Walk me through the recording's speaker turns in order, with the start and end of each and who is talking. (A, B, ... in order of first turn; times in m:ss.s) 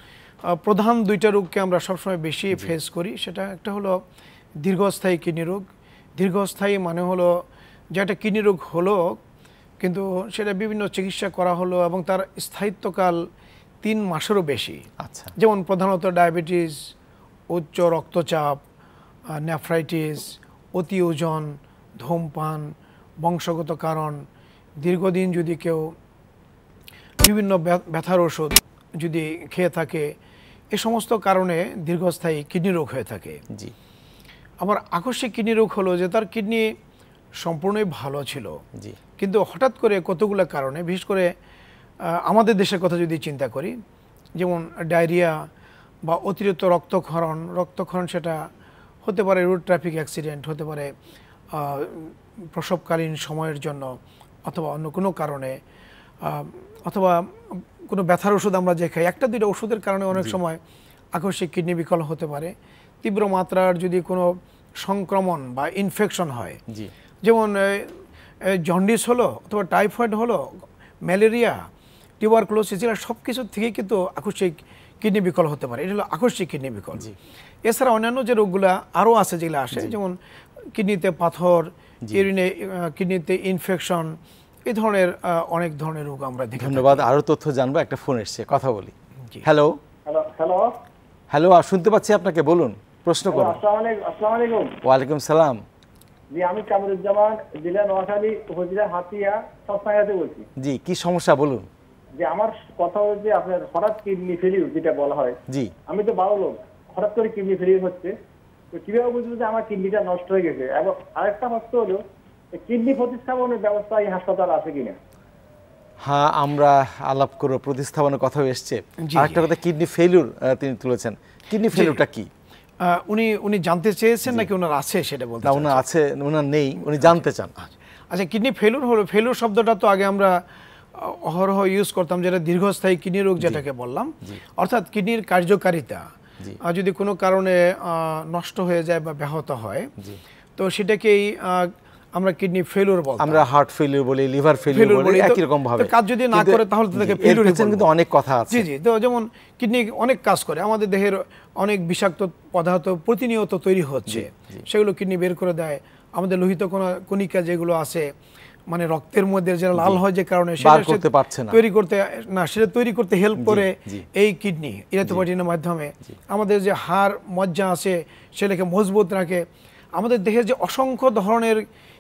0:00.5-0:04.0 A
0:04.6-0:05.6 A
0:06.2-0:07.3 A
0:07.9-0:09.2 A
0:09.8-0:13.2 A
0:13.8-0:14.8 A
0:15.0-0:15.3 B
0:15.4-0:16.8 A
0:17.5-0:18.6 A
0:19.3-0:24.2 A
0:24.8-0:25.9 A
0:27.2-0:30.1 A
0:30.7-0:33.4 A
0:34.6-0:36.7 A
0:37.4-0:38.6 A
0:39.2-0:41.3 A
0:42.1-0:43.7 A
0:44.4-0:45.4 A
0:46.1-0:48.4 A
0:49.0-0:50.9 A
0:51.5-0:55.6 A
0:56.2-1:00.6 A
1:01.1-1:06.6 A
1:07.2-1:10.5 A
1:11.1-1:11.6 A
1:12.2-1:17.1 A
1:17.7-1:20.1 A
1:20.8-1:27.0 A
1:26.6-1:29.8 B
1:30.1-1:30.8 C
1:31.3-1:33.6 B
1:33.3-1:34.8 C
1:34.8-1:35.6 B
1:36.3-1:40.5 C
1:40.6-1:41.7 B
1:42.2-1:45.4 C
1:45.9-1:48.1 C
1:48.7-1:52.0 C
1:52.5-1:55.0 C
1:56.0-2:02.3 B
1:59.0-1:59.4 A
2:01.7-2:02.0 A
2:02.8-2:05.8 A
2:05.4-2:07.5 B
2:07.0-2:10.4 A
2:11.0-2:16.1 A
2:16.6-2:19.9 A
2:20.6-2:23.4 A
2:23.2-2:28.7 B
2:24.7-2:27.9 A
2:28.5-2:38.1 A
2:34.1-2:34.6 B
2:38.7-2:49.4 A
2:39.7-2:40.0 B
2:40.6-2:41.6 B
2:43.4-2:44.0 B
2:50.0-2:51.6 A